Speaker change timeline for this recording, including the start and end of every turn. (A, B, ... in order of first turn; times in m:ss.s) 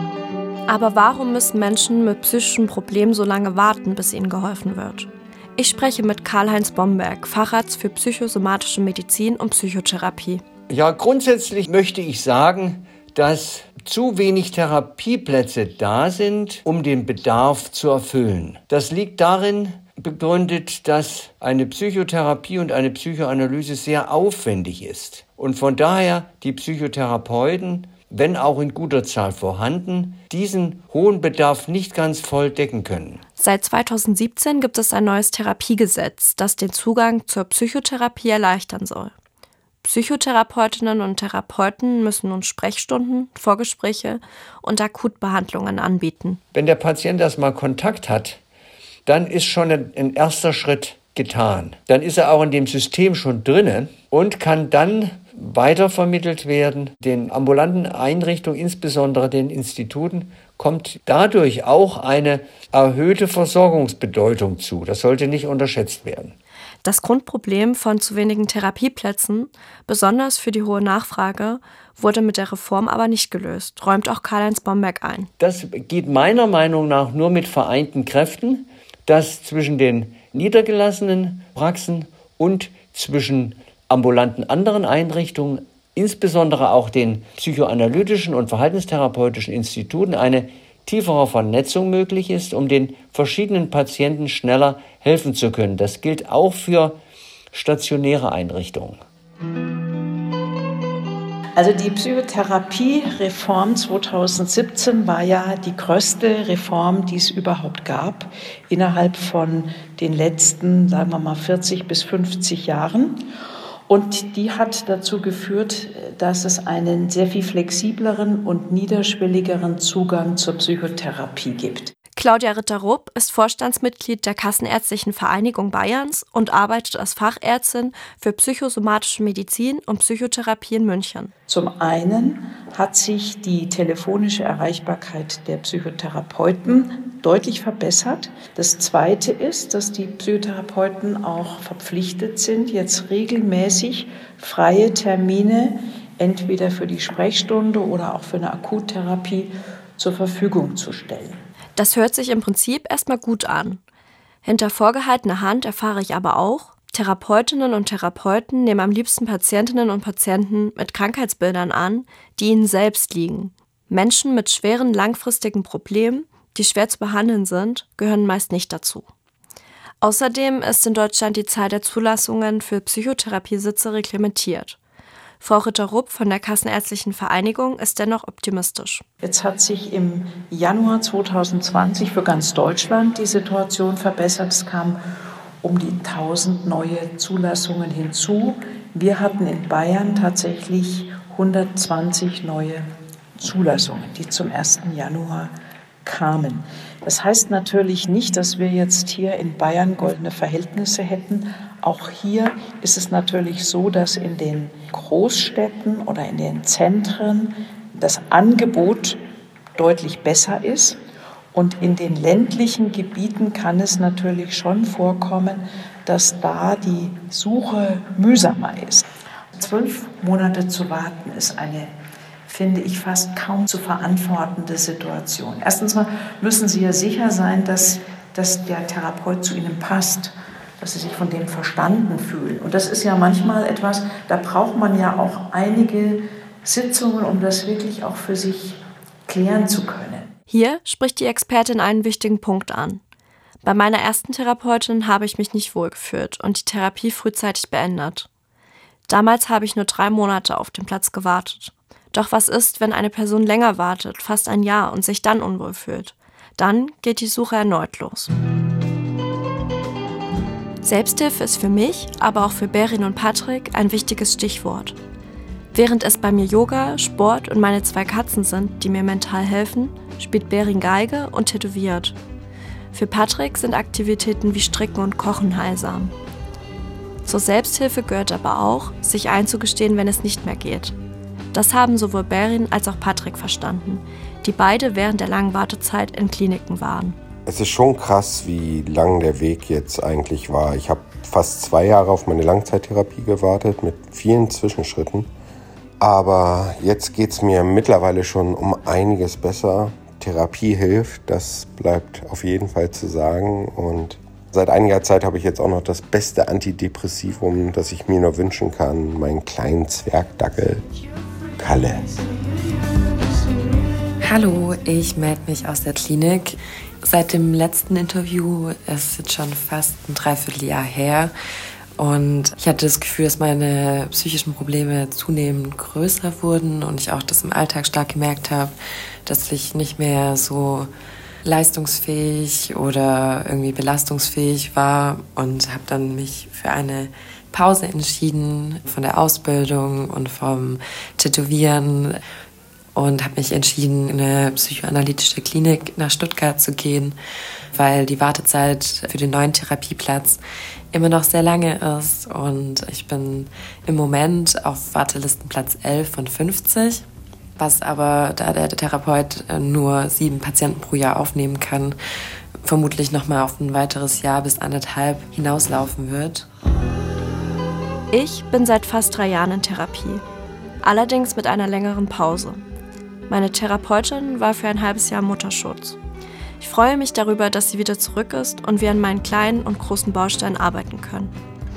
0:00.7-0:10.4 A
0:10.7-0:33.2 B
0:33.4-0:39.1 A
0:39.8-0:46.4 A
0:46.5-0:48.4 B
0:49.1-1:06.4 B
1:06.8-1:15.3 A
1:15.4-1:37.0 B
1:37.5-1:39.0 B
1:41.6-1:53.3 C
1:53.9-2:01.9 C
2:02.2-2:11.3 A
2:11.5-2:31.4 C
2:31.8-2:33.8 A
2:34.4-2:49.1 A
2:50.0-2:54.8 A
2:55.4-2:59.0 A
2:59.2-3:05.0 C
3:05.6-3:12.9 C
3:13.4-3:15.5 C
3:16.0-3:29.2 C
3:29.8-3:31.0 C
3:31.5-3:41.9 C
3:42.5-4:00.3 C
4:00.5-4:03.0 A
4:03.6-4:08.3 A
4:09.1-4:18.3 A
4:20.8-4:25.0 A
4:25.7-4:32.2 A
4:32.9-4:36.1 A
4:37.3-4:41.0 A
4:41.5-4:47.2 A
4:47.5-4:55.3 D
4:56.0-5:10.9 D
5:11.6-5:12.3 D
5:14.2-5:21.3 E
5:22.0-5:28.7 E
5:29.3-5:30.9 E
5:31.4-5:42.2 E
5:43.0-5:47.2 E
5:47.7-5:50.4 E
5:50.9-5:57.0 E
5:57.6-6:02.0 E
6:02.6-6:06.5 E
6:08.1-6:10.2 A
6:10.8-6:12.6 A
6:13.3-6:16.0 A
6:16.6-6:21.4 A